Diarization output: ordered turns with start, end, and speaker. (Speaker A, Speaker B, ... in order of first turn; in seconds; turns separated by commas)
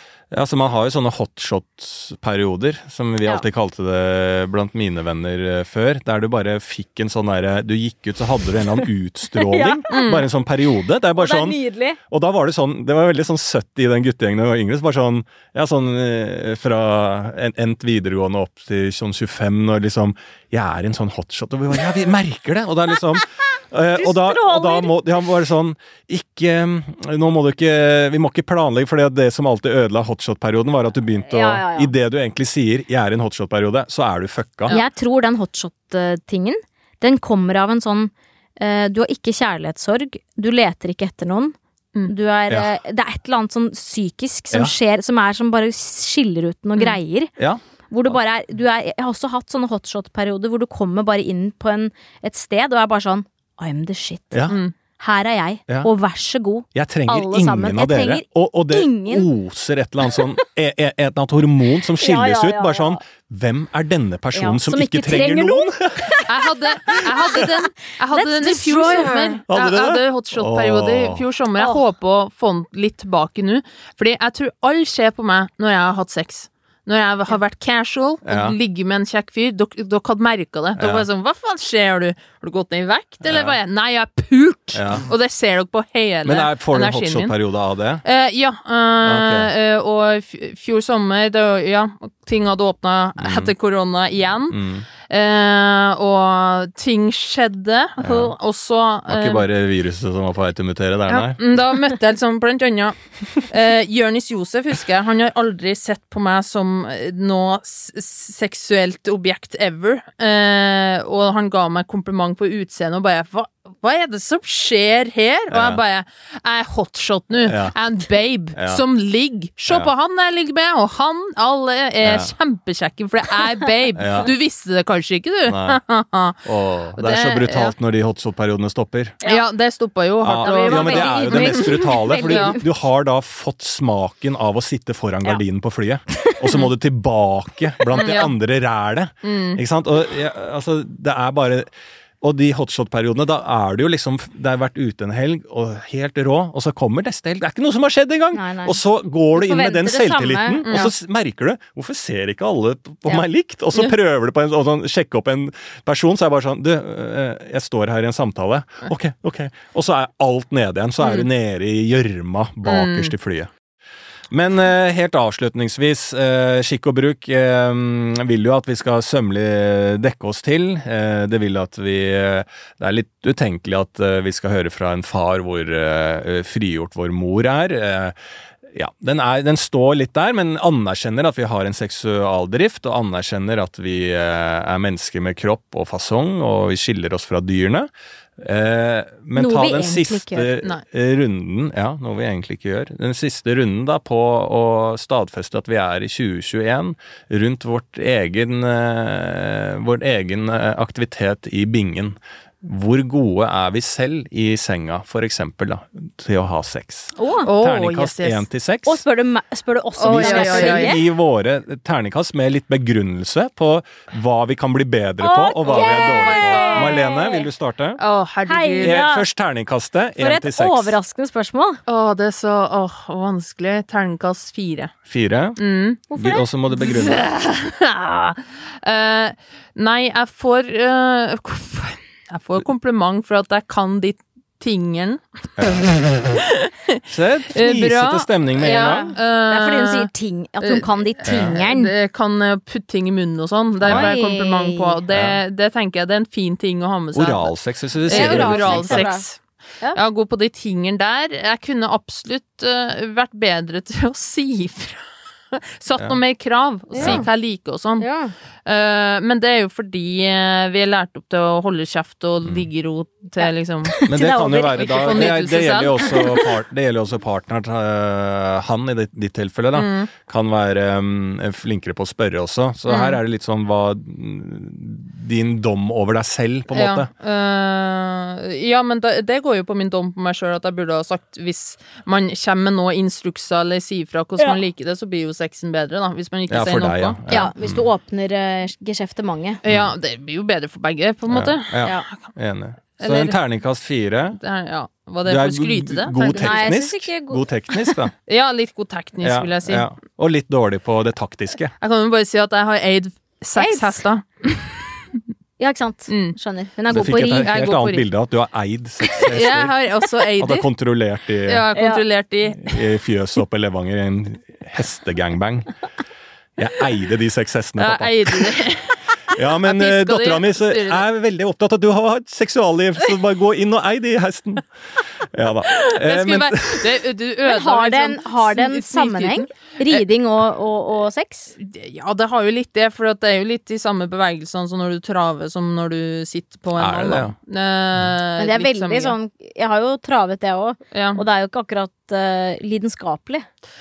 Speaker A: 0.3-34.8, Speaker B: 9.3-9.9, Speaker C: 9.9-10.3, Speaker B: 11.2-12.0, Speaker B: 24.0-24.9, Speaker B: 31.3-31.9, Speaker B: 34.7-47.3, Speaker A: 47.4-48.2, Speaker B: 47.9-59.3, Speaker A: 54.3-54.6, Speaker A: 56.7-66.2, Speaker B: 62.0-63.0, Speaker B: 64.3-66.3, Speaker C: 66.3-87.3, Speaker B: 66.9-67.5, Speaker A: 66.9-67.5, Speaker B: 68.1-69.4, Speaker A: 69.5-71.2, Speaker A: 78.2-78.6, Speaker A: 80.8-81.1, Speaker A: 83.2-83.6, Speaker A: 84.7-85.1, Speaker A: 86.2-88.0, Speaker C: 88.0-99.5, Speaker A: 89.0-89.5, Speaker A: 93.2-93.5, Speaker A: 94.5-94.9, Speaker A: 98.0-98.3, Speaker A: 99.1-101.4, Speaker C: 101.1-126.4, Speaker A: 115.5-115.8, Speaker A: 117.4-117.8, Speaker A: 118.6-118.8, Speaker A: 122.0-122.3, Speaker A: 124.0-124.3, Speaker A: 125.5-125.8, Speaker A: 126.5-129.2, Speaker C: 127.0-127.7, Speaker C: 129.2-132.6, Speaker A: 130.2-163.5, Speaker B: 130.4-132.6, Speaker C: 137.9-138.3, Speaker C: 139.2-139.6, Speaker B: 148.3-148.8, Speaker B: 149.3-150.9, Speaker C: 150.7-150.9, Speaker C: 161.0-161.3, Speaker C: 162.7-163.1, Speaker A: 164.3-178.2, Speaker A: 178.7-209.0, Speaker B: 189.4-190.5, Speaker B: 207.2-207.5, Speaker C: 207.5-208.5, Speaker B: 208.9-211.0, Speaker C: 210.0-211.0, Speaker A: 210.1-218.0, Speaker B: 215.2-217.4, Speaker C: 215.7-217.0, Speaker C: 218.0-219.0, Speaker B: 218.5-219.3, Speaker A: 218.8-221.0, Speaker B: 220.2-221.8, Speaker C: 221.9-224.9, Speaker A: 225.1-225.6, Speaker C: 225.6-226.0, Speaker B: 226.1-226.4, Speaker A: 226.1-227.3, Speaker C: 226.8-237.0, Speaker A: 235.6-235.8, Speaker A: 237.1-239.1, Speaker C: 237.5-240.1, Speaker B: 238.6-241.9, Speaker C: 240.6-247.5, Speaker A: 241.3-241.6, Speaker A: 243.8-244.1, Speaker B: 243.9-245.0, Speaker A: 245.1-245.4, Speaker A: 247.1-249.1, Speaker C: 248.1-249.4, Speaker B: 248.1-249.2, Speaker C: 249.9-258.1, Speaker B: 256.9-257.3, Speaker B: 258.0-258.3, Speaker C: 258.7-266.4, Speaker B: 263.9-265.3, Speaker A: 264.1-277.1, Speaker C: 269.7-270.1, Speaker C: 272.9-273.2, Speaker C: 276.7-287.4, Speaker A: 286.5-287.8, Speaker B: 287.3-289.6, Speaker C: 289.6-292.2, Speaker A: 291.3-294.4, Speaker C: 293.0-293.4, Speaker C: 294.4-296.7, Speaker A: 295.3-298.1, Speaker B: 296.3-297.5, Speaker C: 298.3-299.9, Speaker A: 299.2-301.7, Speaker C: 301.8-305.0, Speaker B: 303.6-304.0, Speaker B: 305.6-307.5, Speaker C: 306.1-306.4, Speaker A: 306.9-309.8, Speaker C: 306.9-308.1, Speaker C: 309.1-310.7, Speaker A: 310.4-311.7, Speaker C: 311.5-312.9, Speaker B: 311.8-312.0, Speaker A: 312.6-315.7, Speaker A: 316.6-318.6, Speaker C: 317.8-321.0, Speaker A: 319.3-324.7, Speaker A: 325.2-327.0, Speaker C: 325.8-330.0, Speaker B: 327.5-331.6, Speaker C: 331.6-339.2, Speaker A: 336.8-337.4, Speaker B: 338.4-343.5, Speaker C: 340.9-341.2